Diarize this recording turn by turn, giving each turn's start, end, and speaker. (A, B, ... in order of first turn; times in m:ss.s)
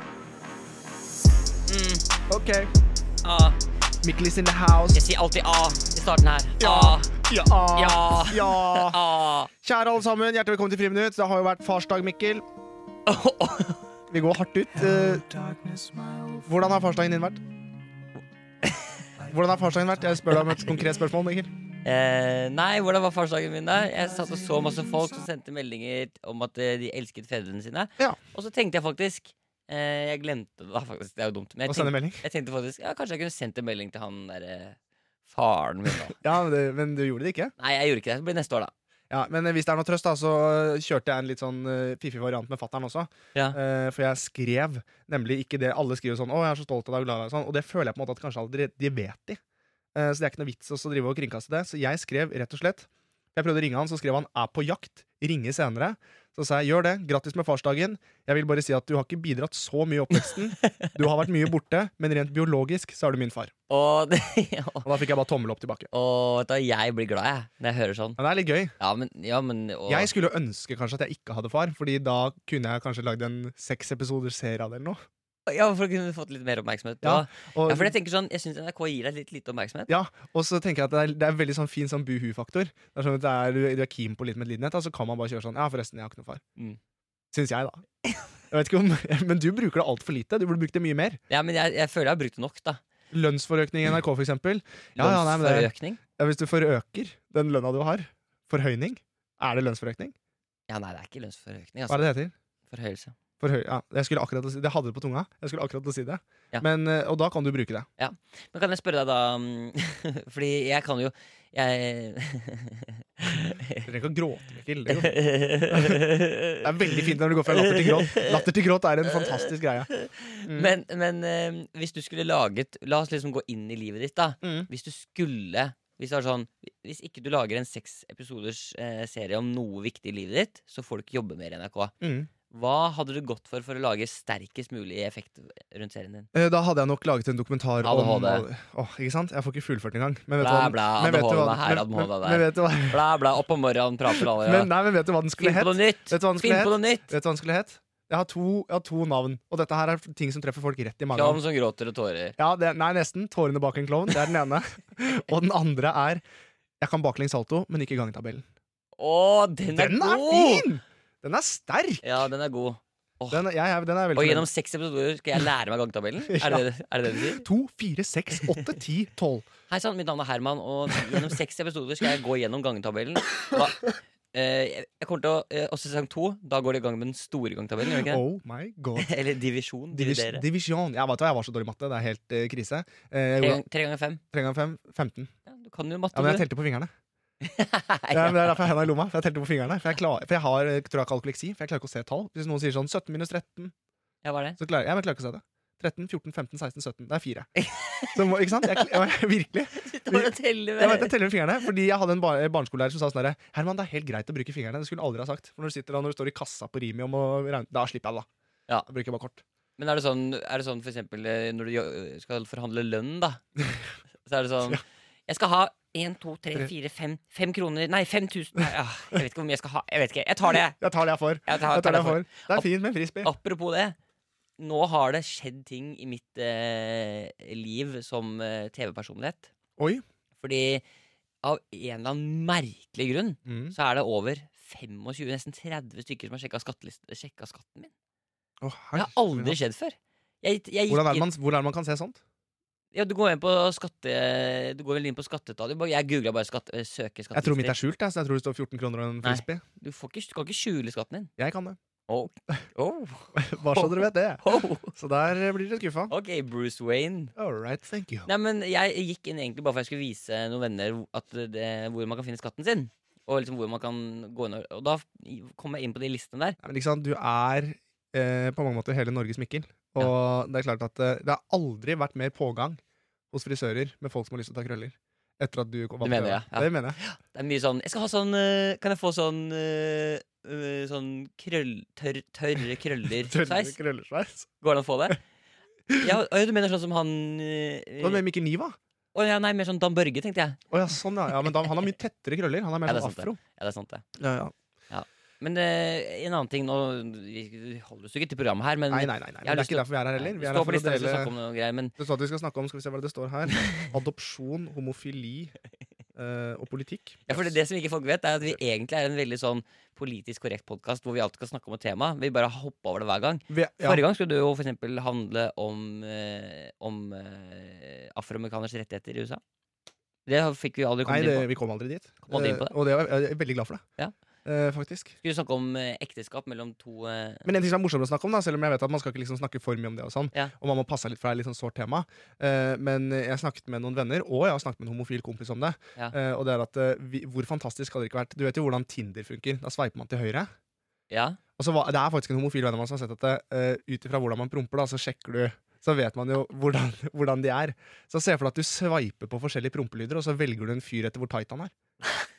0:01.7-0:02.0 A
0:02.3-0:02.7 B
0:03.2-0:03.6 A
0:04.0-0:05.0 B
0:04.9-0:07.1 A
0:06.6-0:09.0 B
0:07.8-0:09.5 A
0:09.6-0:12.4 B
0:13.1-0:13.8 A
0:14.1-0:15.4 B
0:16.4-0:17.4 B
0:19.2-0:21.5 B
0:21.8-0:36.2 A
0:31.7-0:32.2 B
0:36.1-0:37.5 B
0:37.6-0:38.7 A
0:39.1-0:49.4 B
0:50.0-1:03.5 B
1:03.7-1:04.9 A
1:04.8-1:05.9 B
1:05.9-1:08.2 A
1:08.2-1:08.7 B
1:08.8-1:10.1 A
1:09.9-1:15.0 B
1:15.5-1:19.9 A
1:17.0-1:17.9 B
1:19.9-1:26.4 B
1:27.3-1:27.8 B
1:28.5-1:31.2 B
1:31.3-1:32.8 A
1:33.1-1:40.1 B
1:35.0-1:36.0 A
1:40.7-1:42.1 A
1:41.9-1:42.3 B
1:42.7-1:43.2 A
1:43.4-1:47.9 B
1:48.0-1:53.9 A
1:53.8-1:55.2 B
1:54.9-1:58.4 A
1:55.7-1:56.0 B
1:56.6-1:59.9 B
1:59.1-2:11.9 A
2:00.5-2:00.7 B
2:04.4-2:04.7 B
2:12.0-2:12.3 B
2:12.5-2:16.3 A
2:16.3-2:23.0 B
2:17.8-2:18.5 A
2:20.4-2:24.7 A
2:24.1-2:31.4 B
2:25.4-2:27.1 A
2:31.1-2:32.4 A
2:32.4-2:36.2 B
2:36.8-2:38.4 B
2:39.0-2:40.7 A
2:39.7-2:42.1 B
2:42.0-2:43.4 A
2:43.3-2:44.5 B
2:44.2-2:47.4 A
2:46.3-2:46.7 B
2:47.2-2:49.5 B
2:49.7-2:58.2 A
2:57.9-2:59.1 B
2:59.0-3:00.4 A
2:59.9-3:03.6 B
3:03.4-3:04.2 A
3:04.3-3:05.3 B
3:05.5-3:06.5 A
3:06.1-3:06.9 B
3:07.4-3:08.6 A
3:08.1-3:13.7 B
3:14.2-3:14.6 A
3:14.6-3:17.5 B
3:17.6-3:18.9 A
3:18.1-3:28.3 B
3:19.8-3:21.2 A
3:28.9-3:29.4 B
3:29.8-3:33.4 A
3:34.2-3:40.8 A
3:40.8-3:43.3 B
3:41.5-3:42.7 A
3:43.2-3:44.0 A
3:44.6-3:49.5 A
3:49.8-3:50.0 B
3:50.4-3:50.8 A
3:51.4-3:57.9 A
3:53.5-3:53.8 B
3:58.6-3:59.6 B
3:59.0-4:01.3 A
4:00.9-4:02.2 B
4:02.9-4:07.8 A
4:07.4-4:09.6 B
4:09.2-4:11.3 A
4:11.4-4:11.8 B
4:12.1-4:14.9 A
4:13.4-4:16.1 B
4:16.1-4:17.3 A
4:17.4-4:18.3 B
4:18.3-4:26.6 A
4:26.6-4:32.8 B
4:33.3-4:37.0 B
4:36.0-4:43.8 A
4:43.2-4:44.5 B
4:44.6-4:45.2 A
4:46.0-4:48.2 A
4:48.0-4:48.8 B
4:49.2-4:50.6 A
4:50.7-4:53.4 B
4:52.9-4:54.0 A
4:54.2-4:54.5 B
4:54.9-5:02.0 A
4:58.9-5:01.3 B
5:02.0-5:05.5 B
5:06.2-5:07.5 B
5:07.3-5:19.4 A
5:13.5-5:14.0 B
5:20.3-5:21.5 A
5:21.1-5:23.8 B
5:22.2-5:22.7 A
5:24.4-5:25.2 B
5:25.2-5:27.5 A
5:27.4-5:40.5 B
5:41.1-5:41.4 A
5:41.6-5:51.7 B